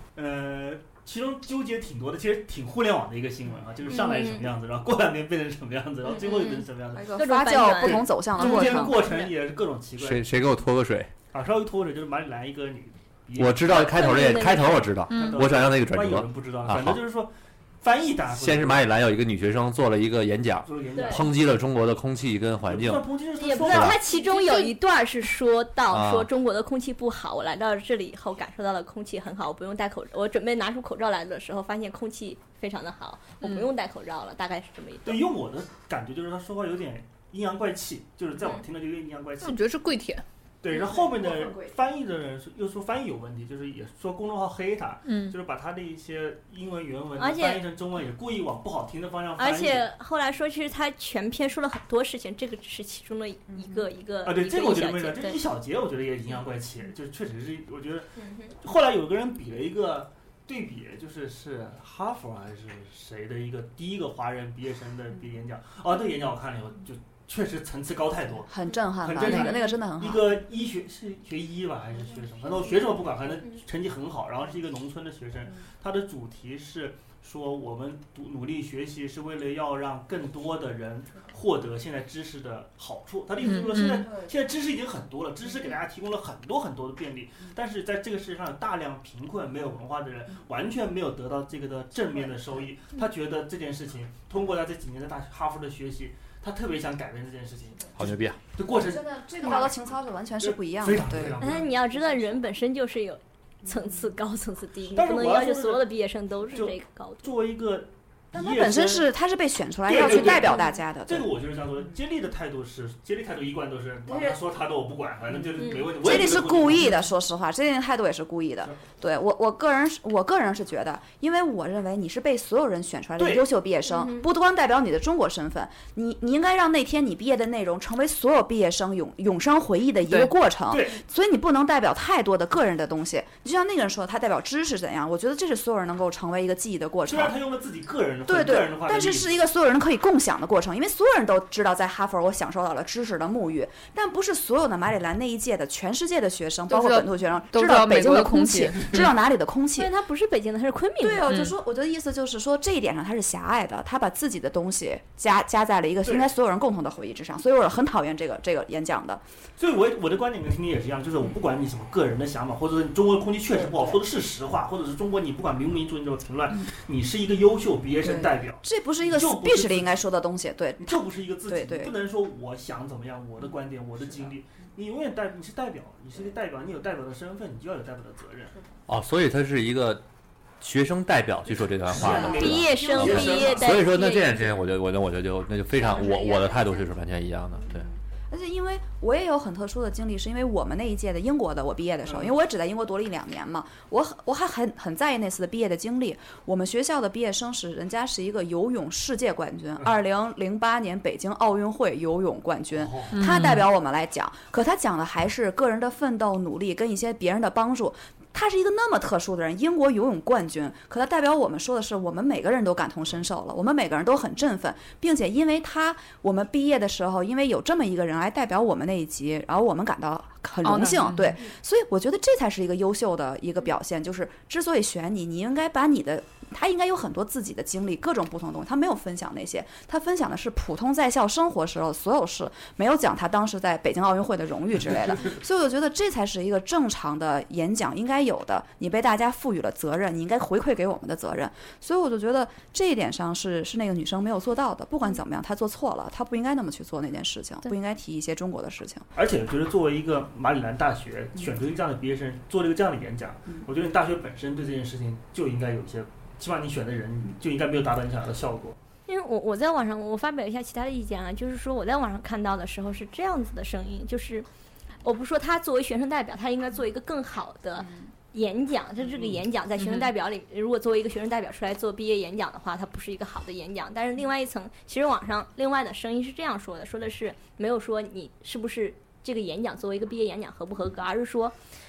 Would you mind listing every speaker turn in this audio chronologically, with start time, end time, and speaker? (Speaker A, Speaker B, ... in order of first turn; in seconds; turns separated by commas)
Speaker A: 0.1-10.2, Speaker B: 3.9-4.5, Speaker B: 6.1-8.2, Speaker C: 6.9-9.0, Speaker D: 8.4-8.9, Speaker B: 8.8-9.3, Speaker E: 10.0-11.1, Speaker A: 11.3-14.1, Speaker E: 13.4-17.0, Speaker B: 13.7-14.9, Speaker D: 15.1-15.4, Speaker A: 15.1-18.9, Speaker E: 18.3-23.1, Speaker A: 20.6-21.4, Speaker B: 20.9-21.2, Speaker A: 22.6-24.0, Speaker B: 23.4-35.2, Speaker E: 23.6-24.0, Speaker D: 24.2-24.7, Speaker E: 25.9-26.3, Speaker D: 33.4-33.7, Speaker A: 35.0-39.7, Speaker D: 39.4-40.2, Speaker A: 40.6-49.9, Speaker C: 40.8-41.7, Speaker D: 45.1-45.4, Speaker B: 47.2-47.6, Speaker B: 49.4-55.4, Speaker C: 53.5-53.8, Speaker A: 54.2-99.7, Speaker B: 58.2-58.5, Speaker C: 68.5-70.4, Speaker D: 83.4-84.1, Speaker E: 98.0-98.4, Speaker C: 98.7-101.6, Speaker A: 100.4-102.4, Speaker B: 101.4-107.3, Speaker A: 104.9-105.9, Speaker A: 106.5-109.1, Speaker C: 108.3-111.3, Speaker A: 109.8-116.9, Speaker B: 115.6-115.9, Speaker C: 115.7-137.4, Speaker A: 123.2-123.5, Speaker B: 123.9-124.3, Speaker A: 130.7-131.0, Speaker A: 137.1-139.4, Speaker C: 138.3-149.9, Speaker D: 146.7-149.0, Speaker B: 149.8-151.3, Speaker C: 151.0-159.2, Speaker D: 151.3-151.5, Speaker A: 156.0-156.3, Speaker A: 159.6-170.0, Speaker C: 163.6-164.0, Speaker C: 168.0-171.9, Speaker A: 170.8-178.6, Speaker E: 178.9-180.0, Speaker E: 180.6-187.9, Speaker A: 181.4-183.8, Speaker B: 182.2-184.6, Speaker B: 185.8-186.8, Speaker C: 187.7-249.1, Speaker A: 192.1-192.3, Speaker A: 202.7-203.3, Speaker D: 203.1-203.7, Speaker D: 220.6-221.4, Speaker A: 249.2-258.8, Speaker B: 259.1-264.5, Speaker B: 265.0-281.5, Speaker A: 269.1-269.4, Speaker D: 269.8-270.1